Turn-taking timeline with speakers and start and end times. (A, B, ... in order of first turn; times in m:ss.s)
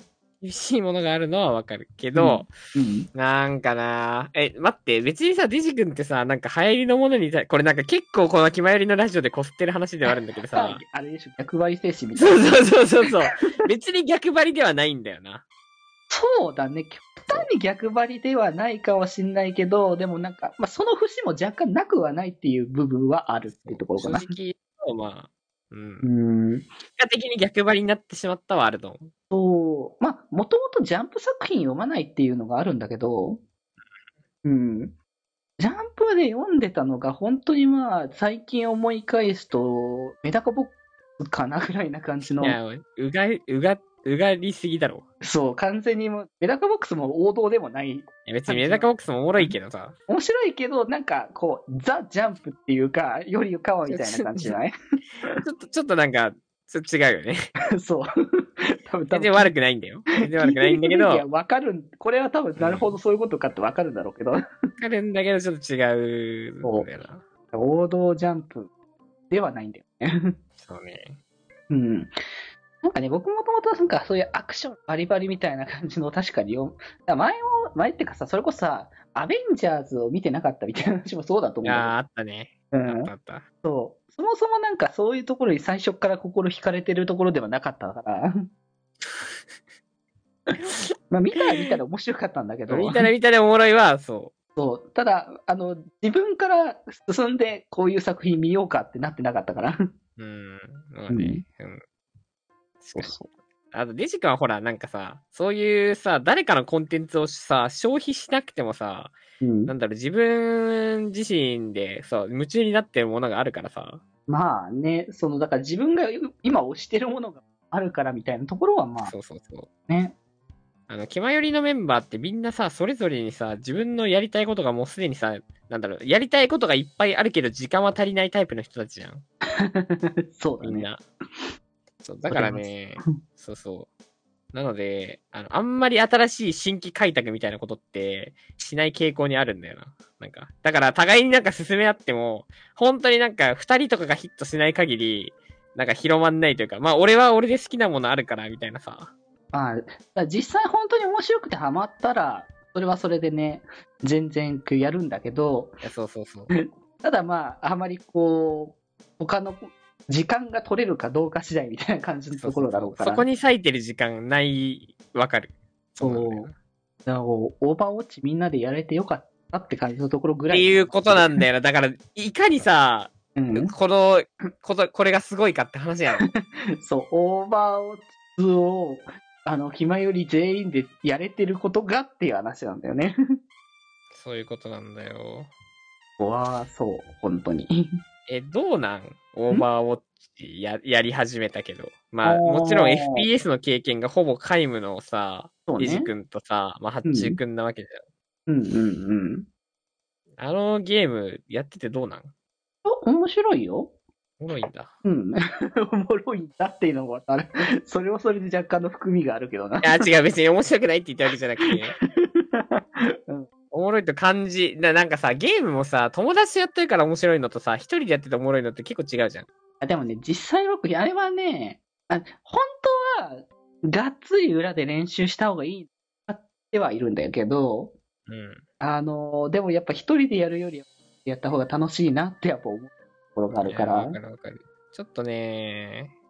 0:00.4-0:02.5 A
0:02.1-0:03.1 B
0:03.1-0:10.8 A
0:10.5-0:12.7 B
0:12.2-0:15.4 A
0:16.1-0:24.3 B
0:23.5-0:26.1 A
0:26.0-0:26.7 B
0:27.0-0:29.1 A
0:29.3-0:33.4 B
0:34.4-0:34.9 B
0:35.6-0:42.6 B
0:42.4-0:45.0 A
0:45.2-0:49.6 B
0:48.3-0:50.0 A
0:50.1-0:54.7 B
0:53.9-0:54.6 A
0:55.4-0:57.5 A
0:57.8-0:58.0 B
0:58.8-0:59.5 B
0:59.1-1:01.2 A
1:00.3-1:04.4 B
1:02.6-1:03.0 A
1:04.8-1:07.2 A
1:07.5-1:08.7 B
1:09.3-1:10.4 B
1:10.6-1:11.2 A
1:11.7-1:12.1 B
1:12.8-1:21.9 B
1:21.6-1:23.4 A
1:22.7-1:23.1 B
1:23.6-1:28.3 B
1:30.7-1:33.1 B
1:32.7-1:34.3 A
1:34.6-1:39.8 B
1:40.2-1:41.8 A
1:41.1-1:41.4 B
1:42.8-1:43.2 A
1:43.0-1:43.3 B
1:43.7-1:54.0 A
1:49.4-1:49.7 B
1:54.3-1:59.1 B
1:59.0-1:59.7 A
1:59.9-2:00.1 B
2:00.9-2:09.2 A
2:09.7-2:10.9 B
2:10.6-2:11.0 A
2:12.0-2:13.9 A
2:12.3-2:13.2 B
2:14.5-2:29.1 A
2:29.5-2:35.7 B
2:35.8-2:36.5 A
2:36.5-2:43.2 B
2:42.3-2:46.5 A
2:46.0-2:46.5 B
2:47.0-2:51.4 B
2:50.5-2:56.3 A
2:53.4-2:53.7 B
2:56.2-3:03.1 B
3:04.1-3:05.5 A
3:06.2-3:07.7 B
3:08.3-3:18.0 A
3:12.2-3:13.3 B
3:15.7-3:16.1 B
3:17.0-3:17.4 B
3:18.5-3:19.5 B
3:20.4-3:22.3 A
3:22.8-3:23.9 B
3:24.4-3:24.9 A
3:25.0-3:30.0 B
3:29.8-3:32.0 A
3:31.7-3:33.5 B
3:33.7-3:39.5 A
3:39.8-3:47.9 B
3:48.3-3:48.6 A
3:48.8-3:54.2 B
3:53.6-3:56.1 A